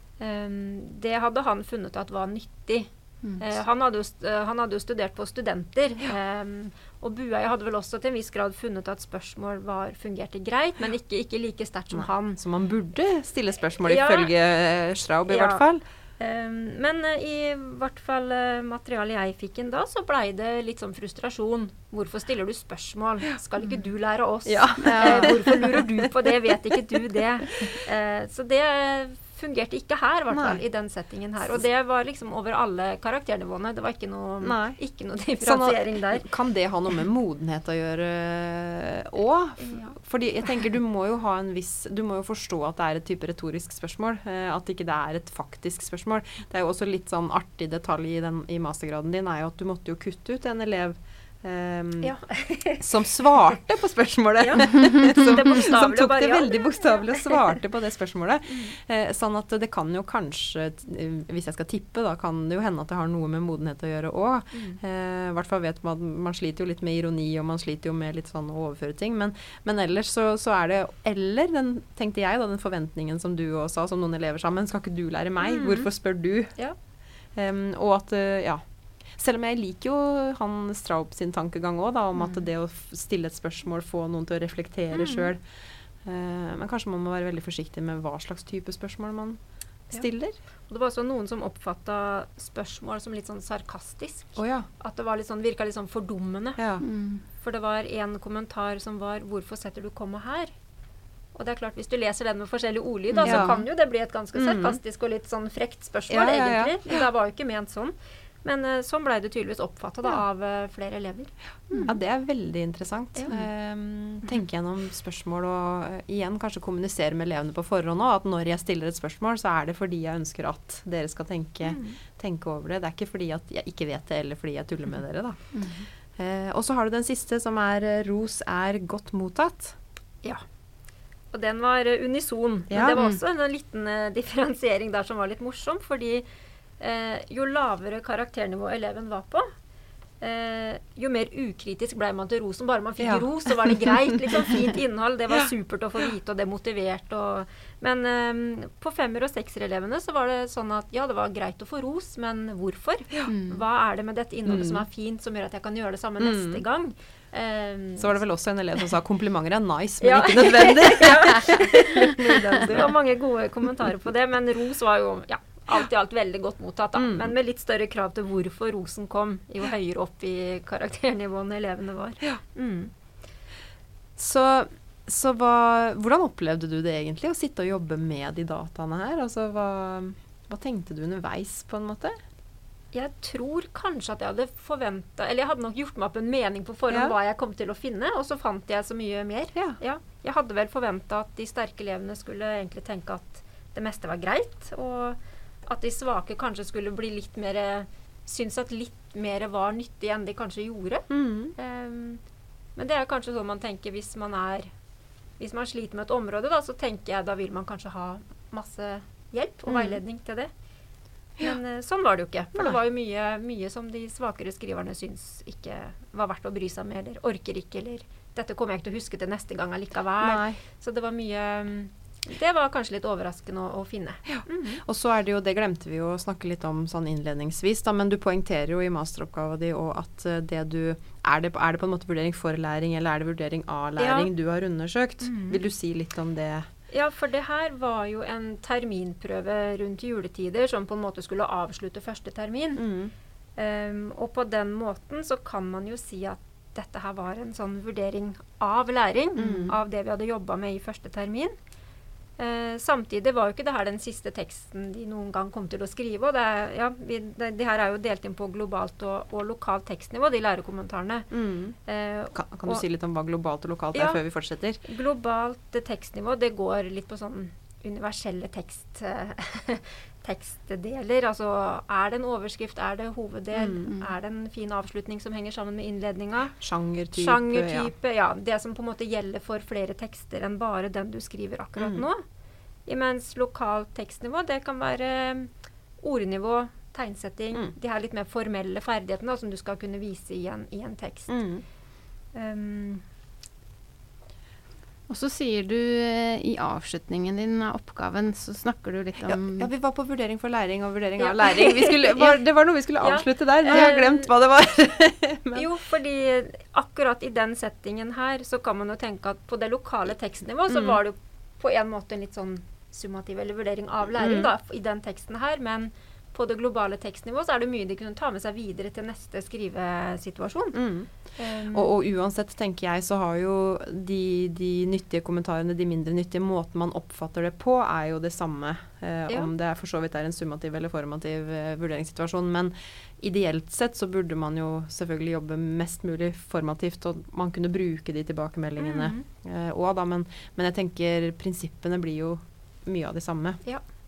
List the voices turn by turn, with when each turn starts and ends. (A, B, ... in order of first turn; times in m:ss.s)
0:00.2-0:12.4 A
0:11.9-0:15.8 B
0:13.8-0:14.3 A
0:15.3-0:15.6 A
0:16.2-0:36.3 A
0:24.5-0:26.1 B
0:24.8-0:25.4 C
0:30.3-0:30.6 B
0:34.4-0:34.8 B
0:35.4-0:52.2 B
0:39.6-0:40.0 A
0:52.0-0:52.9 A
0:52.8-1:16.5 B
0:54.4-0:57.2 A
0:54.7-0:55.1 C
1:04.5-1:04.8 A
1:15.4-1:15.9 A
1:17.4-1:18.6 B
1:19.2-1:25.4 B
1:24.9-1:25.3 A
1:26.0-1:29.4 B
1:29.9-1:30.4 B
1:30.7-1:36.6 A
1:34.4-1:34.7 B
1:36.6-1:36.8 B
1:36.8-1:37.2 C
1:37.4-1:40.5 A
1:41.3-1:51.9 A
1:43.1-1:43.6 C
1:43.2-1:43.6 B
1:44.3-1:44.8 B
1:46.1-1:46.8 B
1:51.8-2:05.4 B
1:53.2-1:53.4 A
2:01.6-2:02.0 A
2:05.5-2:05.9 C
2:06.2-2:09.8 B
2:11.3-2:16.3 A
2:12.7-2:13.0 B
2:16.8-2:19.5 A
2:20.2-2:38.2 A
2:23.0-2:24.2 B
2:33.3-2:33.6 C
2:34.5-2:34.8 B
2:36.2-2:36.6 B
2:38.0-2:42.9 B
2:40.0-2:52.9 A
2:47.0-2:47.3 B
2:54.2-3:02.2 B
3:02.9-3:22.2 A
3:21.1-3:21.6 B
3:22.8-3:24.7 A
3:25.4-3:30.5 A
3:29.7-3:30.0 B
3:31.4-3:44.8 A
3:40.2-3:40.6 B
3:44.3-3:56.7 B
3:54.0-3:54.3 A
3:55.2-3:55.6 A
3:56.9-4:02.8 A
4:02.8-4:03.1 B
4:03.6-4:11.5 A
4:09.4-4:09.8 B
4:12.4-4:21.3 A
4:21.3-4:21.8 B
4:21.8-4:22.8 A
4:22.3-4:24.8 B
4:23.9-4:24.2 A
4:24.8-4:36.6 A
4:33.6-4:33.9 B
4:36.6-4:37.9 B
4:37.1-4:42.2 A
4:41.8-4:42.0 B
4:42.9-4:51.3 A
4:51.3-4:51.6 B
4:52.3-4:53.0 A
4:55.1-4:59.7 C
4:59.2-5:05.6 B
5:01.2-5:02.3 A
5:03.0-5:04.3 A
5:05.6-5:20.8 A
5:10.7-5:11.0 B
5:14.2-5:14.5 B
5:20.7-5:21.1 B
5:21.4-5:21.9 A
5:21.7-5:43.6 B
5:38.8-5:39.2 A